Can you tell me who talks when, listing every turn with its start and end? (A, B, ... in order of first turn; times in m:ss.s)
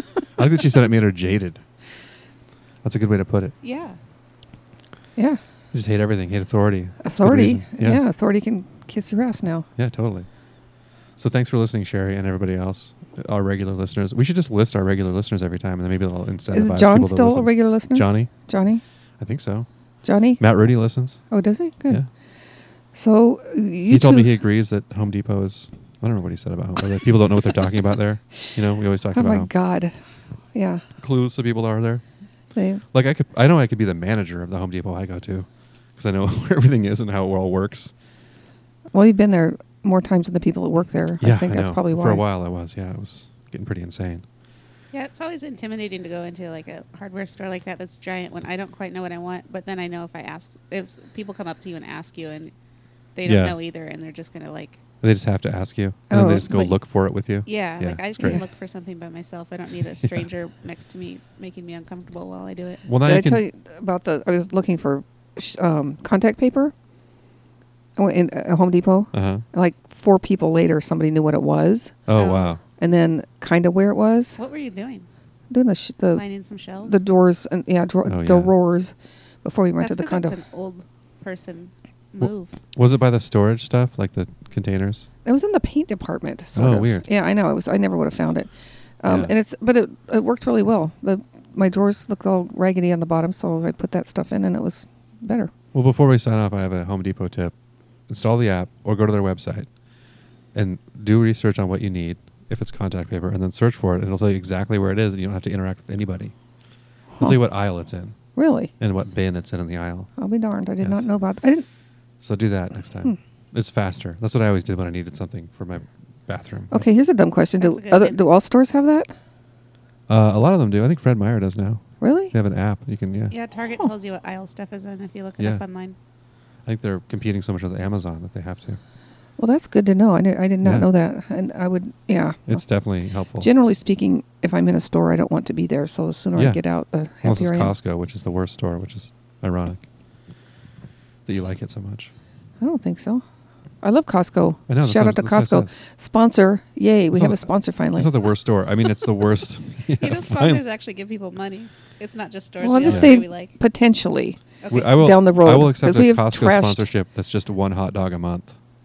0:00.4-0:01.6 A
0:02.8-0:03.5 A
0:03.6-0:04.0 B
0:05.7-0:08.0 A
0:07.0-0:09.7 C
0:09.8-0:10.3 A
0:11.2-0:18.3 A
0:16.5-0:18.8 C
0:19.2-0:19.7 A
0:20.0-0:20.4 C
0:20.4-0:21.2 A
0:21.3-0:22.0 C
0:22.9-0:24.3 C
0:23.9-0:29.5 A
0:29.1-0:29.9 C
0:30.5-0:30.8 C
0:31.0-0:32.0 A
0:32.5-0:32.8 C
0:32.9-0:37.9 A
0:38.9-0:42.2 C
0:41.2-0:44.2 A
0:44.9-0:52.5 B
0:53.1-0:54.8 B
0:53.2-0:53.6 A
0:55.0-0:58.4 A
0:56.1-0:56.7 C
0:57.4-1:02.8 B
1:02.8-1:03.4 A
1:03.0-1:06.7 C
1:08.0-1:12.0 C
1:09.1-1:09.4 A
1:12.1-1:12.6 A
1:12.1-1:12.6 B
1:12.8-1:14.4 C
1:14.4-1:15.1 B
1:15.5-1:16.2 C
1:16.1-1:17.0 B
1:16.8-1:20.4 C
1:18.0-1:18.5 A
1:19.8-1:22.6 B
1:22.2-1:25.1 A
1:25.2-1:35.5 C
1:26.5-1:27.0 A
1:29.0-1:29.3 A
1:35.7-1:37.5 A
1:38.1-1:39.7 A
1:40.5-1:46.3 A
1:47.2-1:48.2 A
1:48.3-1:48.7 C
1:48.8-1:50.1 A
1:50.2-1:51.6 C
1:50.8-1:51.1 A
1:52.2-1:56.8 A
1:56.7-1:59.1 C
1:57.6-1:58.2 B
2:00.1-2:03.4 A
2:02.0-2:02.3 C
2:03.3-2:06.0 B
2:06.6-2:08.8 A
2:09.4-2:12.6 C
2:10.6-2:10.9 A
2:12.5-2:13.5 A
2:13.4-2:17.7 C
2:17.2-2:19.8 A
2:21.2-2:22.1 A
2:22.6-2:23.2 C
2:23.8-2:28.1 C
2:24.7-2:25.7 A
2:27.1-2:30.6 A
2:30.0-2:33.5 B
2:32.6-2:36.9 C
2:32.8-2:33.2 A
2:34.6-2:35.0 B
2:34.7-2:38.6 A